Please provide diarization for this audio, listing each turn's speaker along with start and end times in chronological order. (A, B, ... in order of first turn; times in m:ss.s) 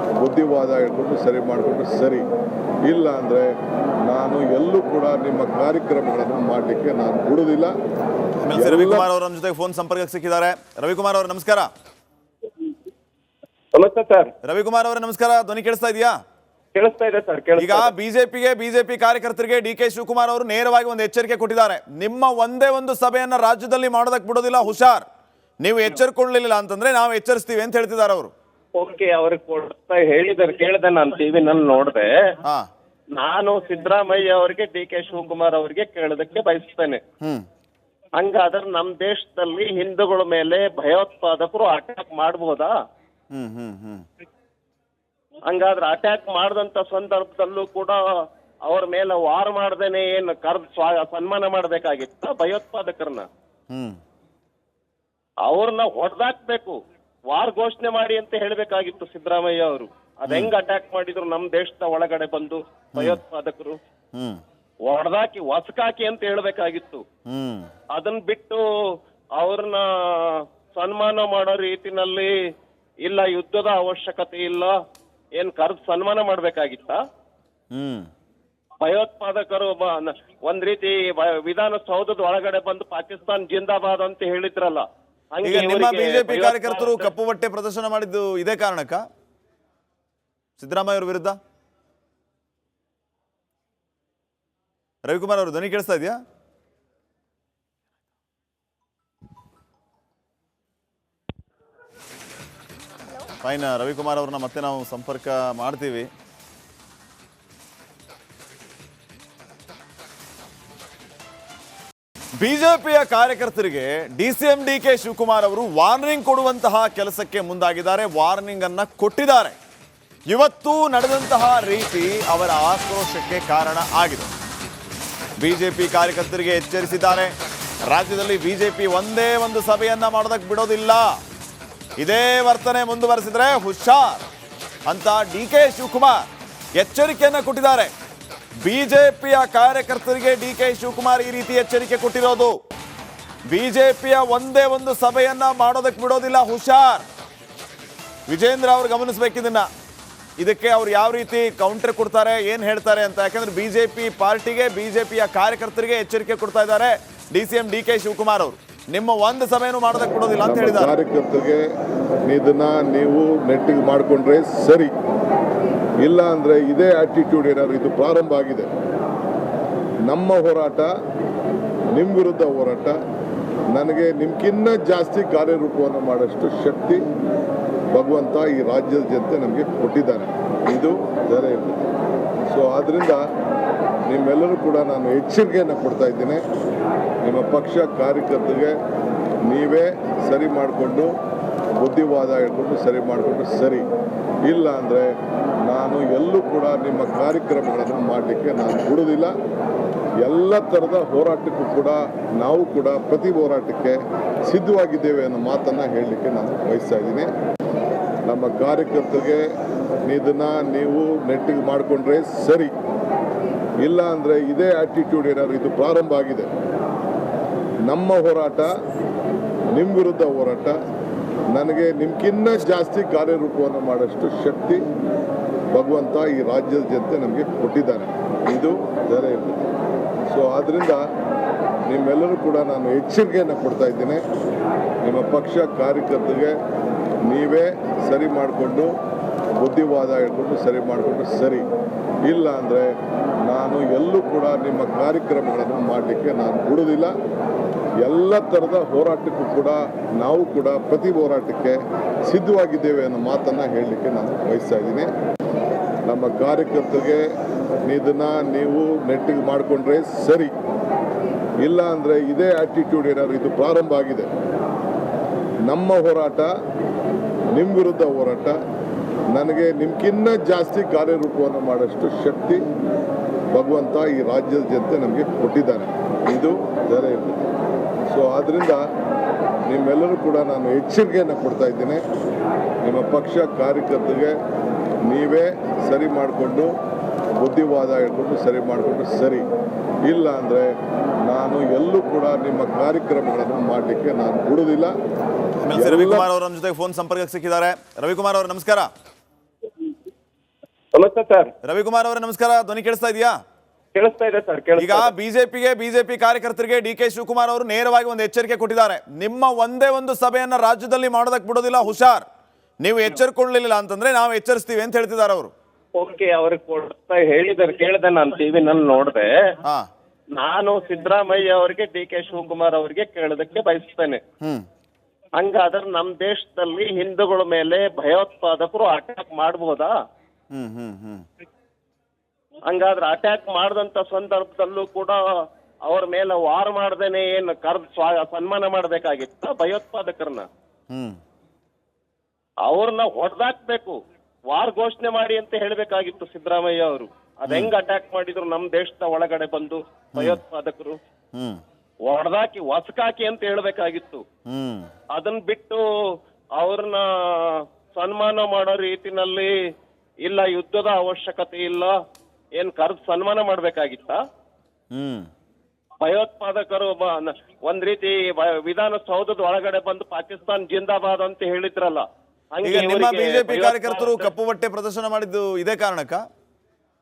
0:00.2-0:02.2 A
0:02.9-0:03.5 A
0:04.1-0:07.7 A
0:08.4-0:11.7 B
0:08.5-0:09.1 A
0:13.7-0:14.3 C
0:14.4-0:16.1 B
0:16.7-0:17.9 C
0:17.6-0:25.0 B
0:25.6-0:28.3 B
0:28.8-0:32.1 C
0:33.2-0:37.0 C
0:38.2-0:42.7 C
0:43.3-0:44.0 B
0:45.5-0:48.0 C
0:48.6-0:53.3 C
0:53.7-0:54.0 B
0:55.4-0:56.8 C
0:57.3-1:03.8 C
1:00.3-1:00.5 B
1:02.9-1:03.2 B
1:04.1-1:04.4 B
1:04.9-1:07.0 C
1:07.3-1:07.7 B
1:07.9-1:08.6 C
1:09.4-1:12.3 C
1:13.0-1:14.7 C
1:15.4-1:17.0 C
1:17.7-1:18.1 B
1:18.8-1:27.1 C
1:25.4-1:29.0 B
1:30.6-1:31.4 B
1:35.0-1:36.2 B
1:43.4-1:46.1 B
1:52.4-1:59.6 B
2:00.3-2:04.3 B
2:05.4-2:07.3 B
2:07.9-2:11.1 B
2:12.0-2:14.2 B
2:14.9-2:16.2 B
2:16.8-2:17.9 B
2:18.6-2:22.5 B
2:23.5-2:27.0 B
2:28.3-2:29.6 B
2:30.4-2:40.9 B
2:40.4-2:41.6 A
2:42.3-2:44.9 A
2:46.0-2:48.7 A
2:50.1-2:50.9 A
2:51.9-2:53.0 A
2:53.7-2:57.0 A
2:57.9-3:01.9 A
3:02.5-3:03.2 A
3:04.1-3:06.4 A
3:07.2-3:08.7 A
3:09.5-3:11.1 A
3:11.8-3:13.9 A
3:14.5-3:15.1 A
3:15.7-3:19.3 A
3:20.2-3:24.0 A
3:24.5-3:27.3 A
3:28.3-3:29.4 A
3:30.0-3:32.7 A
3:33.8-3:36.5 A
3:37.9-3:38.7 A
3:39.7-3:40.8 A
3:41.5-3:44.8 A
3:45.7-3:49.7 A
3:50.3-3:51.0 A
3:51.9-3:54.2 A
3:55.0-3:56.5 A
3:57.3-3:58.9 A
3:59.6-4:01.6 A
4:02.3-4:02.9 A
4:03.5-4:07.1 A
4:08.0-4:15.1 A
4:16.1-4:17.2 A
4:17.8-4:20.5 A
4:21.6-4:24.3 A
4:25.7-4:26.5 A
4:27.5-4:28.6 A
4:29.3-4:32.6 A
4:33.5-4:37.5 A
4:38.1-4:38.8 A
4:39.7-4:42.0 A
4:42.8-4:44.3 A
4:45.1-4:46.7 A
4:47.4-4:49.4 A
4:50.1-4:50.7 A
4:51.3-4:54.9 A
4:55.6-4:58.9 B
4:55.7-4:56.3 A
5:00.9-5:01.5 C
5:01.6-5:03.3 B
5:03.9-5:05.1 C
5:04.8-5:12.2 B
5:12.8-5:15.5 B
5:16.0-5:19.3 C
5:20.4-5:24.2 C
5:25.4-5:29.9 C
5:30.5-5:31.2 B
5:32.7-5:35.2 C
5:35.8-5:40.4 C
5:40.9-5:41.2 B
5:42.6-5:44.0 C
5:44.5-5:51.0 C
5:47.5-5:47.7 B
5:50.1-5:50.4 B
5:51.3-5:51.6 B
5:52.1-5:54.2 C
5:54.5-5:54.9 B
5:55.1-5:55.8 C
5:56.6-5:59.5 C
6:00.2-6:01.9 C
6:02.6-6:04.2 C
6:04.9-6:05.3 B
6:06.0-6:14.3 C
6:12.6-6:16.2 B